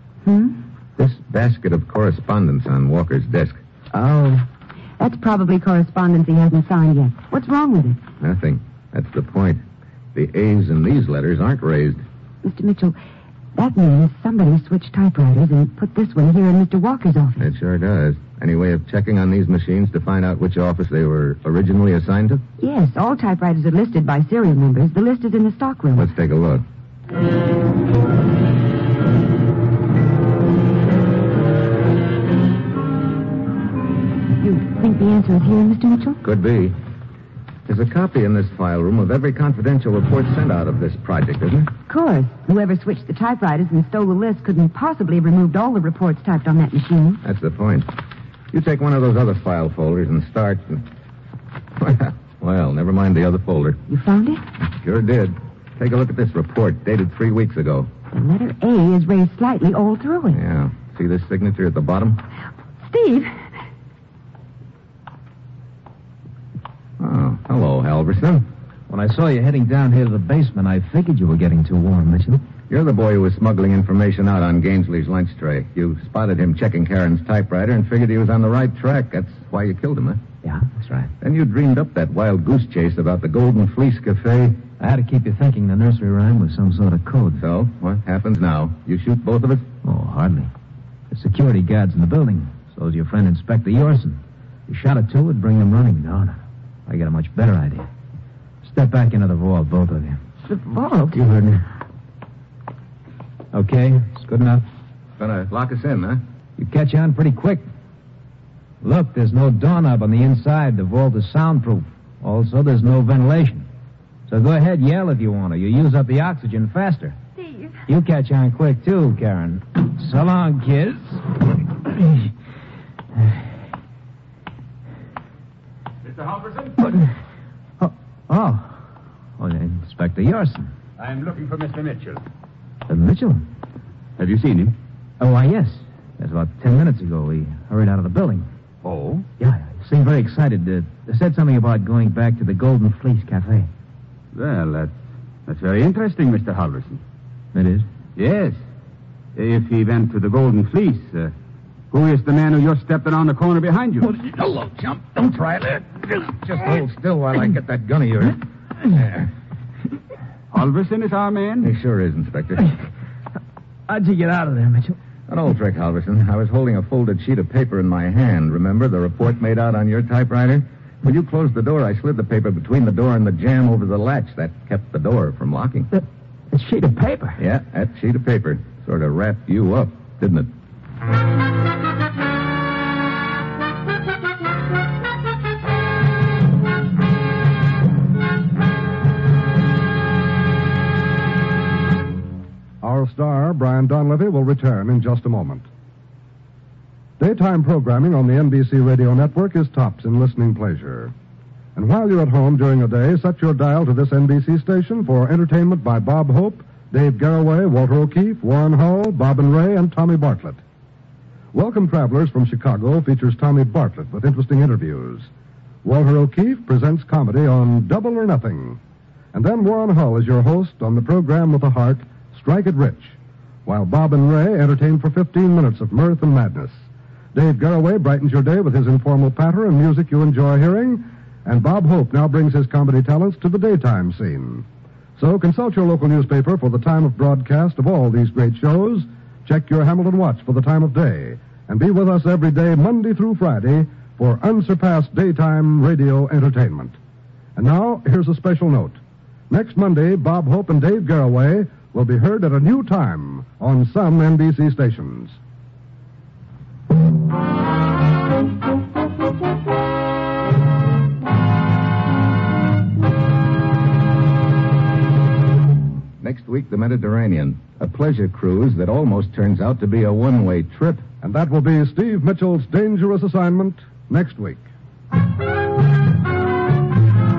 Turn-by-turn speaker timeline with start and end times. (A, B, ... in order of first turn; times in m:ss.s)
0:00.2-0:00.6 A
0:01.0-0:03.6 B
0:03.9-0:04.5 A
0:05.0-0:08.0 A
0:08.2-0:09.6 B
0:10.1-0:12.0 B
0:12.4-0:13.0 A
0:13.6-0:17.5 A
0:17.4-0:22.4 B
0:22.6-0:26.1 A
0:26.0-0:26.6 B
0:34.4-0:36.2 A
0:36.2-0:36.8 B
0:37.7-0:41.7 B
0:41.9-0:47.2 A
0:47.2-0:48.0 B
0:48.5-0:50.9 B
0:51.8-0:53.8 B
0:53.9-0:54.4 A
0:54.6-0:57.9 B
0:58.1-1:00.4 A
1:00.3-1:02.2 B
1:02.8-1:03.5 A
1:07.0-1:08.5 B
1:08.9-1:12.4 C
1:12.7-1:20.2 B
1:20.4-1:21.1 C
1:21.2-1:24.7 B
1:24.8-1:27.4 C
1:27.4-1:29.7 B
1:29.8-1:30.5 C
1:31.1-1:37.9 C
1:38.6-1:40.2 C
1:40.5-1:41.2 A
1:41.1-1:41.6 C
1:43.5-1:44.6 C
1:45.2-1:46.2 B
1:46.6-1:47.6 C
1:48.8-1:53.7 C
1:54.3-1:57.2 C
1:57.4-1:57.8 A
1:57.9-2:01.2 C
2:01.8-2:02.3 C
2:06.0-2:06.8 D
2:06.8-2:07.1 C
2:07.8-2:08.8 C
2:09.4-2:10.7 C
2:11.0-2:12.2 D
2:12.9-2:13.4 C
2:14.2-2:14.8 D
2:15.2-2:18.5 C
2:18.8-2:19.3 D
2:19.4-2:23.7 C
2:24.3-2:27.0 D
2:27.5-2:27.9 C
2:28.2-2:28.6 D
2:29.4-2:31.4 D
2:31.9-2:34.1 D
2:34.0-2:39.3 B
2:40.5-2:41.7 D
2:41.6-2:42.7 B
2:43.9-2:45.0 C
2:45.3-2:55.9 B
2:55.9-2:57.4 C
2:57.4-3:00.5 B
3:12.8-3:15.7 E
3:17.2-3:21.1 E
3:21.8-3:30.6 E
3:31.5-3:35.3 E
3:35.8-3:38.8 E
3:39.3-3:46.8 E
3:47.3-3:54.6 E
3:55.2-4:07.0 E
4:07.6-4:09.0 E
4:09.5-4:15.4 E
4:26.2-4:31.1 B
4:31.2-4:34.7 E